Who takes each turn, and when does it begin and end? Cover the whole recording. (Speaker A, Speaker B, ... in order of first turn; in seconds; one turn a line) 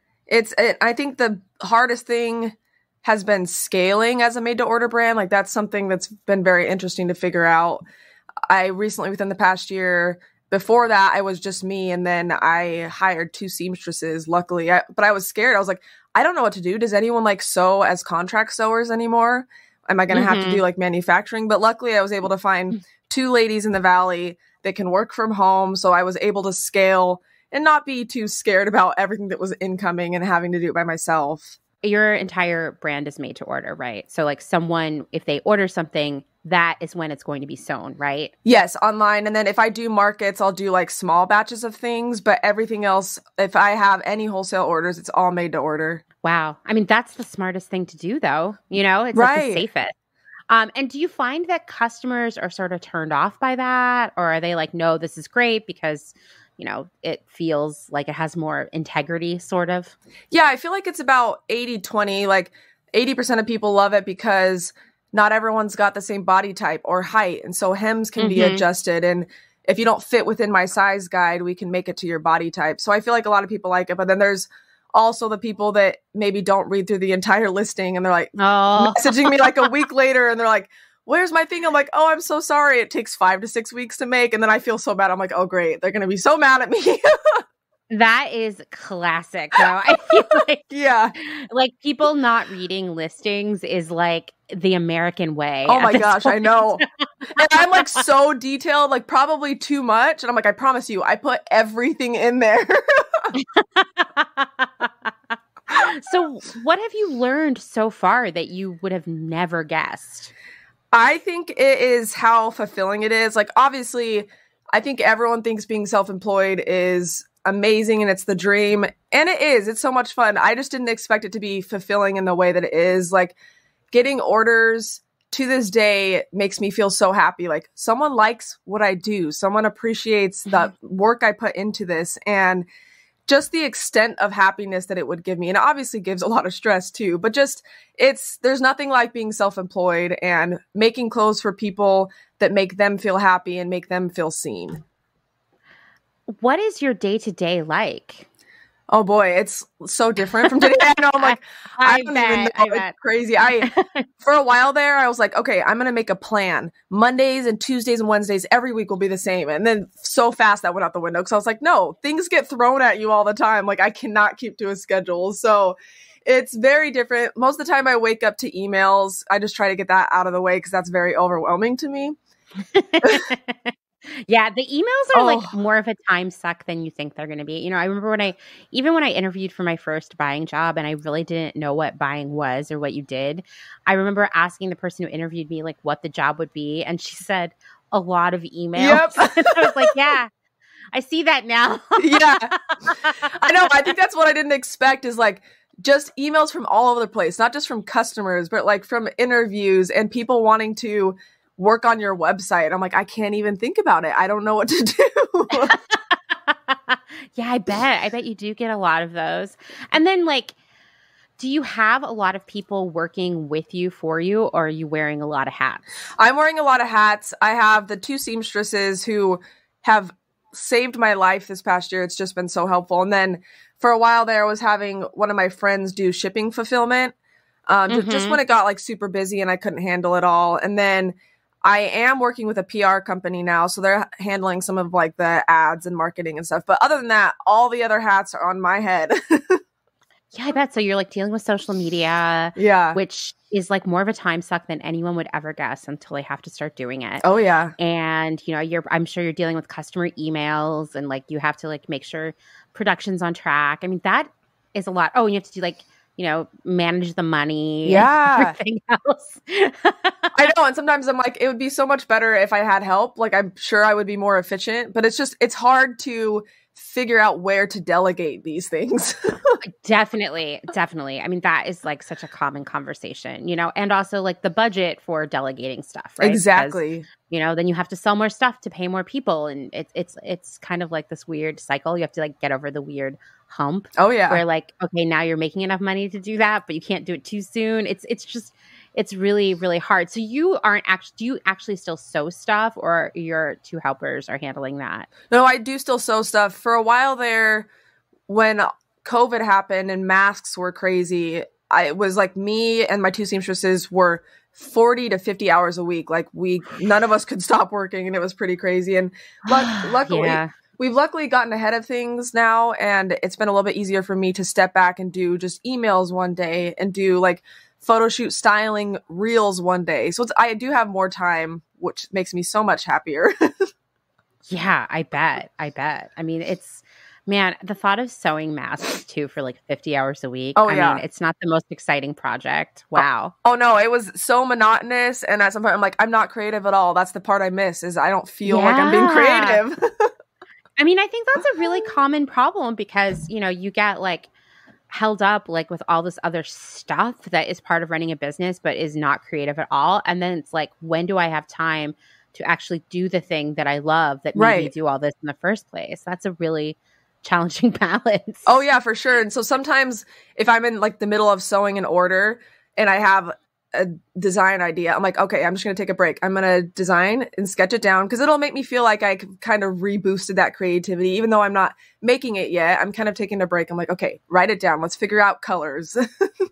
Speaker A: 0.3-7.8
Speaker A: 8.5-31.6
Speaker B: 20.1-20.6
Speaker B: 31.8-38.3
Speaker A: 38.5-46.0
Speaker B: 46.2-49.9
Speaker A: 49.1-49.6
Speaker B: 50.5-60.0
Speaker A: 60.3-87.4
Speaker B: 68.2-68.6
Speaker B: 78.4-79.7
Speaker B: 87.9-97.3
Speaker A: 90.7-91.1
Speaker A: 95.7-96.8
Speaker A: 97.3-103.3
Speaker B: 103.3-105.1
Speaker B: 105.7-110.3
Speaker A: 110.9-123.3
Speaker A: 123.9-132.7
Speaker A: 133.3-144.8
Speaker B: 146.3-148.3
Speaker A: 148.9-153.7
Speaker B: 151.2-152.9
Speaker B: 153.6-154.0
Speaker A: 154.2-172.2
Speaker B: 172.7-190.3
Speaker A: 175.1-175.5
Speaker A: 188.8-189.9
Speaker B: 190.9-193.7
Speaker A: 192.0-205.8
Speaker B: 205.5-205.9
Speaker B: 206.5-210.5
Speaker B: 211.4-215.8
Speaker A: 216.2-227.1
Speaker A: 227.7-239.6
Speaker B: 227.9-228.4
Speaker B: 240.3-247.2
Speaker A: 242.6-243.0
Speaker A: 247.2-247.7
Speaker B: 247.8-260.4
Speaker A: 257.8-258.6
Speaker A: 260.3-269.6
Speaker B: 269.8-295.1
Speaker A: 276.2-277.1
Speaker A: 284.0-284.4
Speaker A: 295.3-297.7
Speaker A: 298.3-323.7
Speaker B: 309.5-310.5
Speaker B: 324.5-333.3
Speaker A: 330.6-331.0
Speaker A: 332.9-340.1
Speaker B: 338.4-339.6
Speaker B: 340.8-344.3
Speaker B: 344.9-358.6
Speaker A: 354.4-354.7
Speaker A: 358.4-376.2